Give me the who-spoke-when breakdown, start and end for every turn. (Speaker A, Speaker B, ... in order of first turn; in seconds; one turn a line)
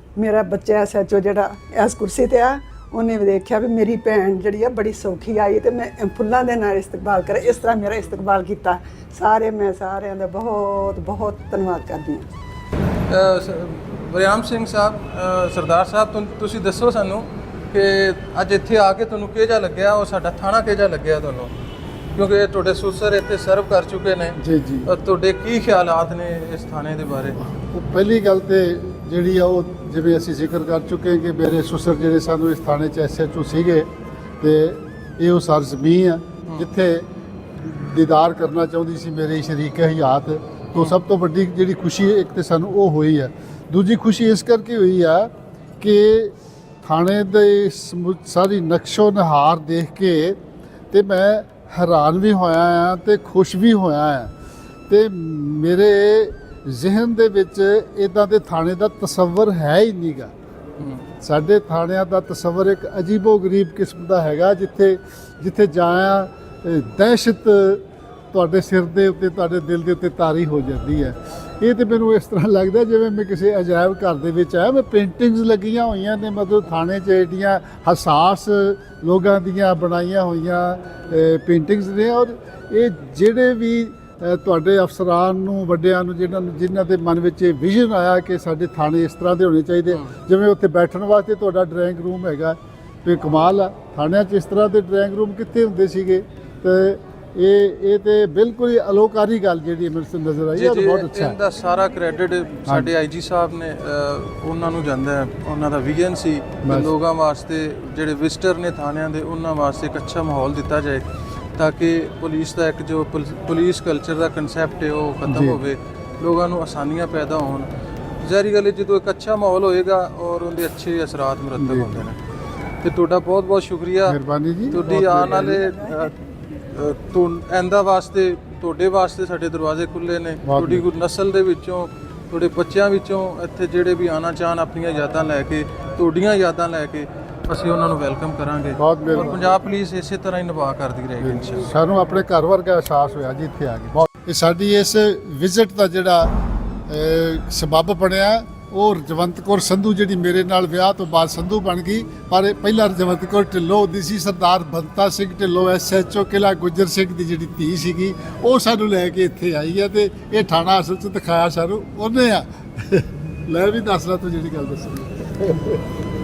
Speaker A: 0.2-12.3
Speaker B: 13.1-21.5
Speaker B: 22.1-27.4
Speaker C: 24.4-24.9
Speaker C: 27.6-37.1
Speaker C: 37.6-50.4
Speaker C: 50.9-54.3
Speaker C: 54.9-60.3
Speaker B: 60.8-61.0
Speaker C: 61.2-101.4
Speaker B: 100.6-117.7
Speaker C: 102.7-102.9
Speaker C: 106.7-106.9
Speaker C: 115.3-115.6
Speaker B: 118.2-122.2
Speaker C: 121.6-122.1
Speaker B: 122.8-124.2
Speaker C: 124.1-125.6
Speaker B: 124.7-126.2
Speaker B: 126.7-141.7
Speaker C: 130.4-130.9
Speaker C: 138.8-139.4
Speaker C: 141.2-146.3
Speaker C: 146.9-165.8